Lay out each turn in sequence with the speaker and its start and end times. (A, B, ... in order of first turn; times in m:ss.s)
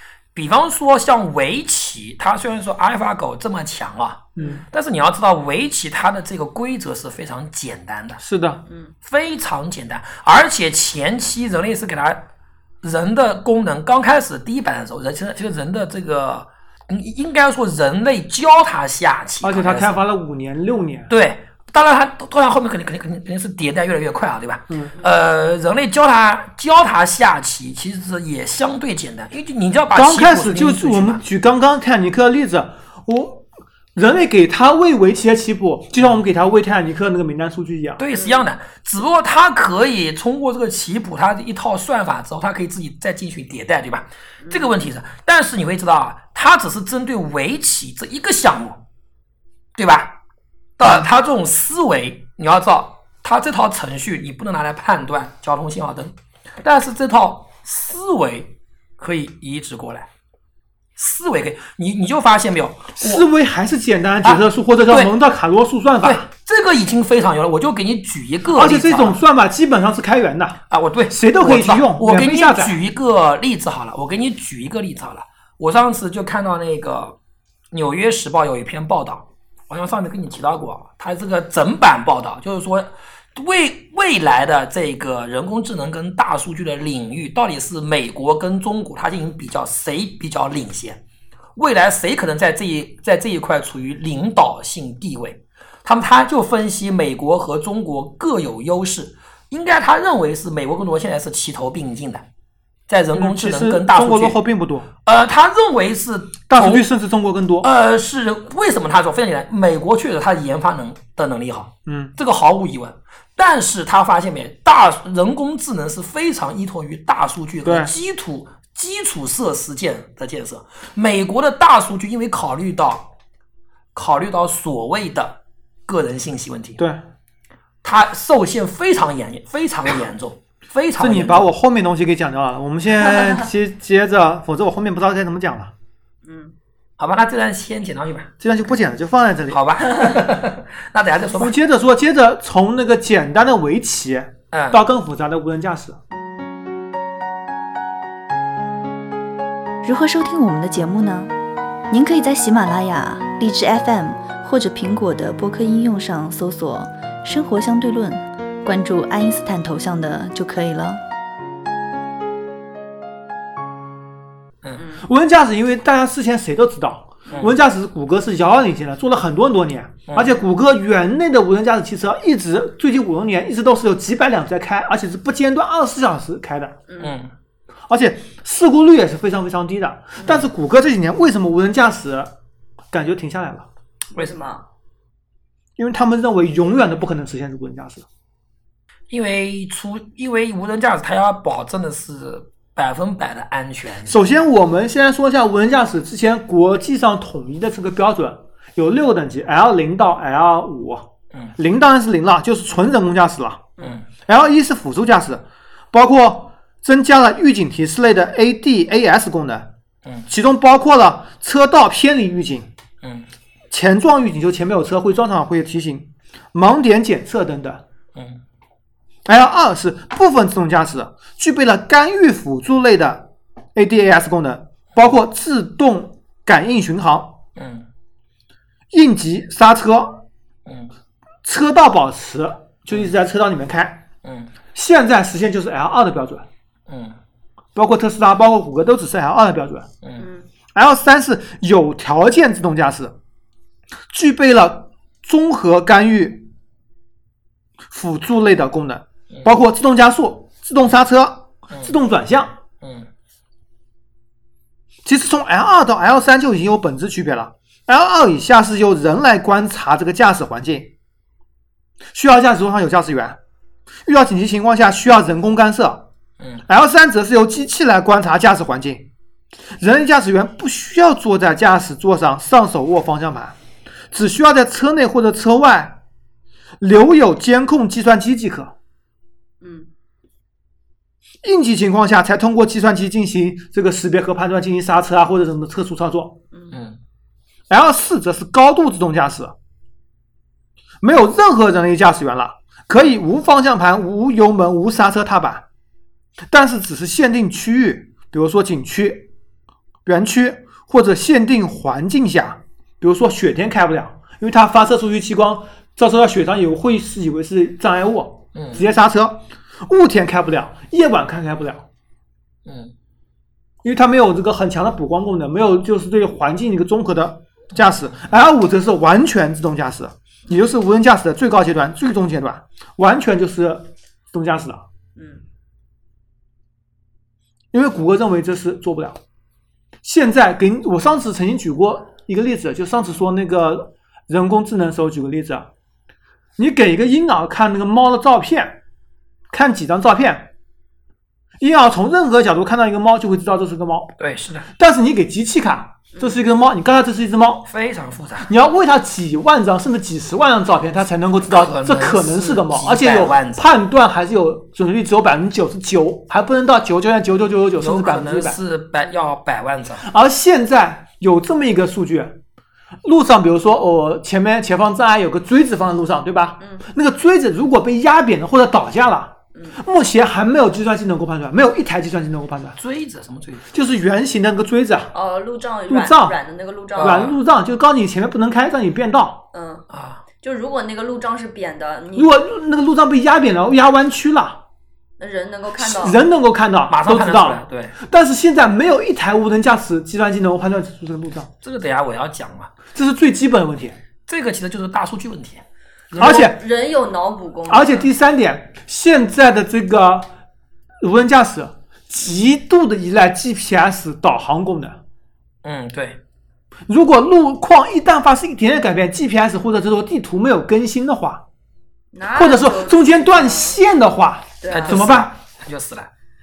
0:00.3-0:08.2 A
0:04.4-0:04.6 B
0:08.2-0:08.6 B
0:08.7-0:08.9 C
0:09.0-0:12.3 A
0:12.8-0:20.0 A
0:19.4-0:21.1 B
0:21.1-0:31.2 A
0:29.9-0:38.0 B
0:38.0-0:48.8 A
0:38.1-0:38.4 C
0:44.4-0:44.7 C
0:49.8-0:50.2 A
0:50.8-1:00.1 A
1:01.0-1:03.2 A
1:03.0-1:06.3 B
1:04.2-1:05.1 A
1:06.0-1:09.2 A
1:08.5-1:12.8 B
1:10.7-1:17.2 A
1:17.7-1:31.0 A
1:31.6-1:42.2 A
1:42.9-1:44.4 A
1:43.1-1:44.9 B
1:45.0-1:46.9 A
1:46.5-1:47.7 B
1:47.6-2:03.1 A
1:51.8-1:52.1 B
1:57.6-1:57.9 B
2:03.9-2:06.8 A
2:06.8-2:07.0 B
2:07.8-2:11.5 A
2:11.0-2:15.7 B
2:16.2-2:16.5 C
2:17.0-2:18.3 A
2:18.4-2:19.6 B
2:19.5-2:21.5 A
2:21.3-2:26.0 B
2:24.5-2:24.8 A
2:29.8-2:31.3 D
2:31.9-2:41.0 D
2:44.8-2:45.0 C
2:45.0-2:56.8 B
2:50.1-2:50.3 A
2:56.9-2:57.1 C
2:57.0-2:57.3 A
2:57.9-3:02.3 B
3:02.9-3:03.7 B
3:04.1-3:04.6 C
3:05.8-3:08.0 B
3:09.1-3:14.2 A
3:14.0-3:29.7 B
3:23.8-3:24.0 A
3:30.3-3:32.7 B
3:33.0-3:33.3 A
3:33.7-3:37.8 B
3:38.1-3:38.4 A
3:39.2-3:47.4 B
3:47.6-3:47.9 A
3:48.9-3:50.2 B
3:50.6-3:50.9 A
3:51.4-3:54.0 B
3:54.2-3:54.5 A
3:54.7-3:56.4 B
3:56.9-3:57.2 A
3:57.7-3:59.9 B
4:00.2-4:00.5 C
4:00.7-4:03.2 B
4:04.1-4:06.5 B
4:07.9-4:12.6 B
4:12.8-4:13.1 A
4:15.0-4:20.9 B
4:22.1-4:23.4 B
4:24.0-4:26.1 B
4:26.7-4:29.1 B
4:29.8-4:33.6 B
4:34.1-4:36.0 B
4:36.8-4:38.7 B
4:39.6-4:39.9 C
4:41.4-4:46.4 B
4:46.7-4:47.0 A
4:47.7-4:49.5 B
4:51.0-4:55.6 B
4:56.5-4:59.3 B
5:00.0-5:11.9 B
5:08.5-5:08.8 A
5:12.6-5:12.9 A
5:13.8-5:24.8 B
5:25.2-5:25.4 C
5:27.7-5:29.2 B
5:30.0-5:35.7 B
5:36.6-5:38.8 B
5:39.5-5:40.5 B
5:41.6-5:44.1 B
5:44.2-5:44.7 A
5:44.7-5:47.7 B
5:47.6-5:48.5 A
5:48.5-5:58.6 B
5:51.5-5:53.7 A
5:57.8-6:00.1 A
6:00.0-6:02.4 B
6:03.0-6:12.8 B
6:12.8-6:13.7 A
6:13.7-6:15.1 B
6:15.1-6:17.3 C
6:15.9-6:16.4 B
6:17.0-6:17.4 A
6:17.0-6:19.4 B
6:19.5-6:19.8 C
6:19.9-6:20.2 A
6:20.4-6:22.3 C
6:22.1-6:24.6 B
6:25.2-6:26.2 C
6:25.8-6:31.5 B
6:26.9-6:28.0 A
6:31.6-6:32.7 A
6:32.9-6:34.0 B
6:34.3-6:36.4 A
6:36.2-6:36.6 B
6:36.2-6:38.1 C
6:37.7-6:40.3 B
6:41.0-6:45.0 B
6:45.6-6:46.2 A
6:46.9-6:51.4 B
6:52.1-6:53.8 C
6:52.3-6:55.3 B
6:54.6-6:55.2 C
6:54.7-6:56.1 A